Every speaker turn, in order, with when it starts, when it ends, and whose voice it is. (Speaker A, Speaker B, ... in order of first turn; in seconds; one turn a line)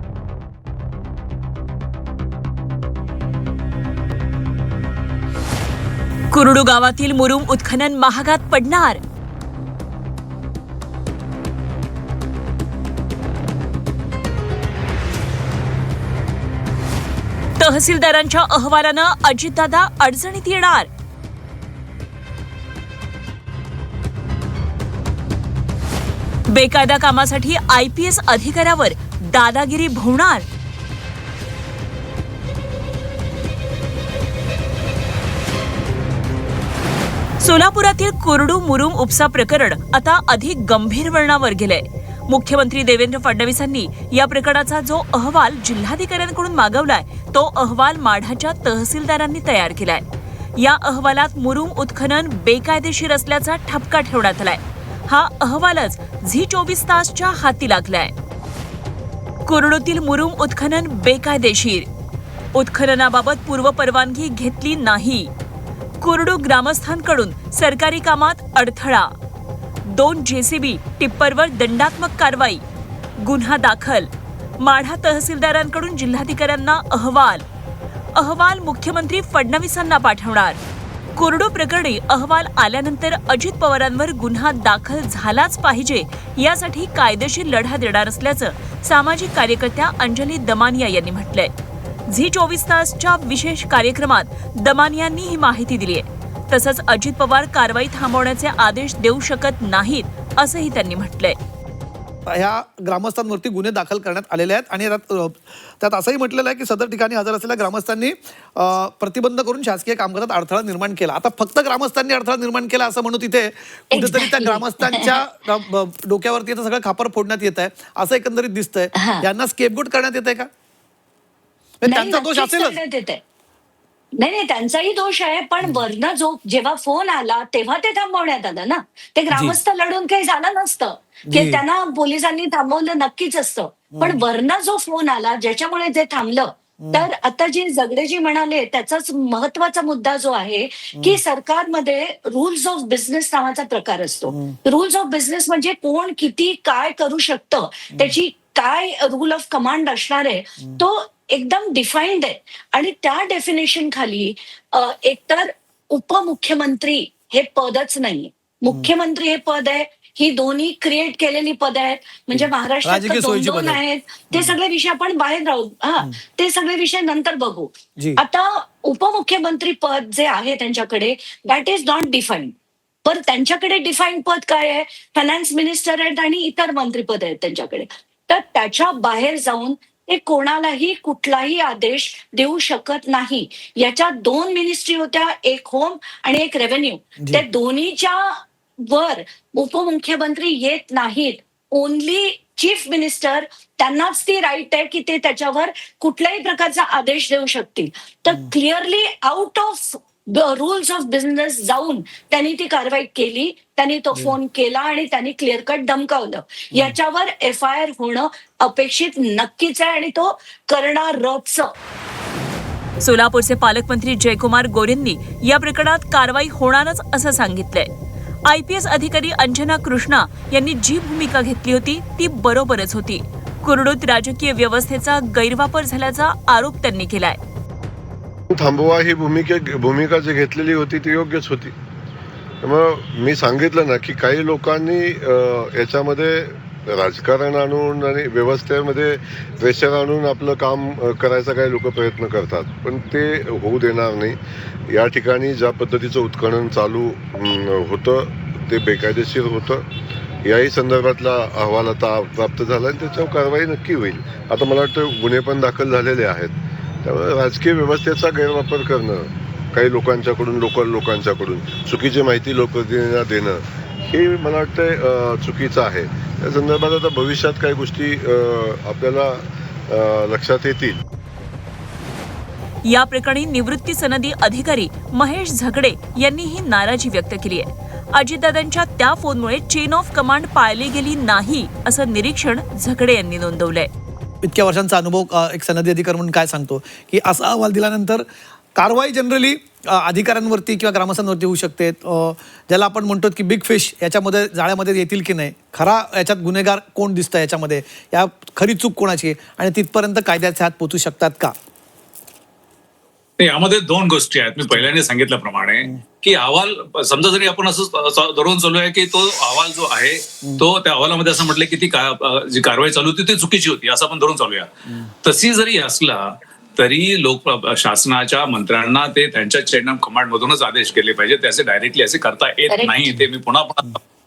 Speaker A: 6.3-9.0
Speaker A: 17.6-20.9
Speaker A: 26.5-30.4
Speaker A: 37.4-50.0
Speaker A: 50.6-58.1
Speaker A: 59.5-61.9
Speaker A: 62.5-65.3
Speaker A: 66.0-69.1
Speaker A: 69.9-72.6
Speaker A: 73.2-74.1
Speaker A: 74.6-77.4
Speaker A: 78.2-80.6
Speaker A: 81.2-91.5
Speaker A: 92.1-101.4
Speaker B: 102.3-120.5
Speaker C: 113.9-115.1
Speaker C: 119.0-119.3
Speaker B: 121.8-122.8
Speaker C: 121.9-123.2
Speaker C: 124.2-172.5
Speaker B: 129.3-129.6
Speaker B: 131.3-131.6
Speaker B: 133.9-134.2
Speaker B: 136.8-137.1
Speaker B: 144.3-144.6
Speaker B: 162.3-164.6
Speaker C: 173.1-211.7
Speaker A: 213.0-217.9
Speaker A: 218.5-227.4
Speaker D: 228.5-231.8
Speaker D: 232.6-249.8
Speaker D: 250.4-271.0
Speaker A: 272.9-283.9
Speaker B: 284.4-288.2
Speaker B: 288.8-301.5
Speaker E: 303.4-314.7
Speaker E: 315.2-324.0
Speaker C: 322.7-323.0